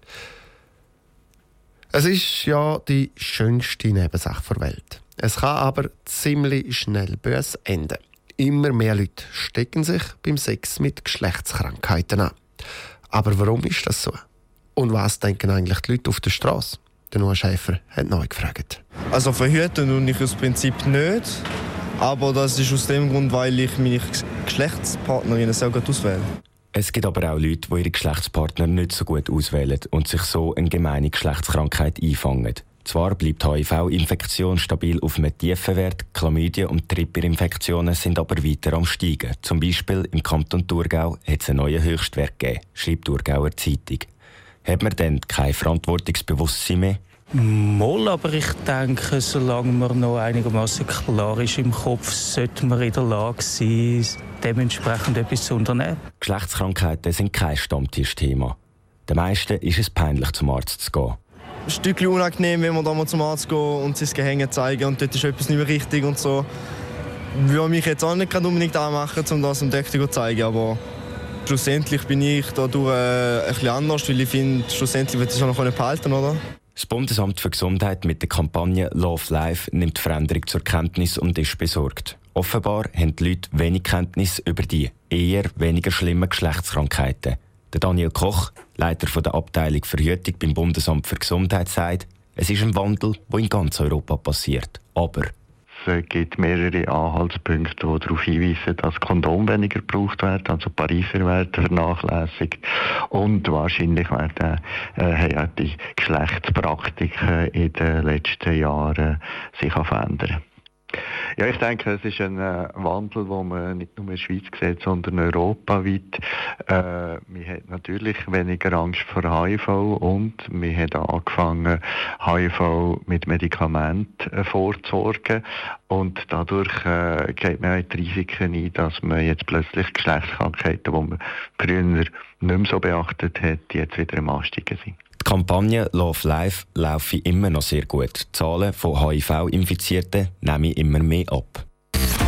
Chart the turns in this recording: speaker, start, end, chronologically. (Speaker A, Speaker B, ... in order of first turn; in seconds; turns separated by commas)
Speaker A: 1.9-12.3, Speaker A: 13.1-14.2, Speaker A: 14.8-18.8, Speaker B: 19.1-21.4, Speaker B: 22.0-26.3, Speaker C: 26.7-44.1, Speaker C: 44.6-47.0, Speaker D: 47.4-56.0, Speaker C: 56.2-61.2, Speaker B: 61.7-66.5, Speaker B: 67.4-70.8, Speaker B: 71.5-76.4, Speaker C: 76.8-95.3, Speaker E: 95.8-110.4, Speaker E: 111.4-116.2, Speaker E: 116.7-134.9, Speaker C: 135.2-141.6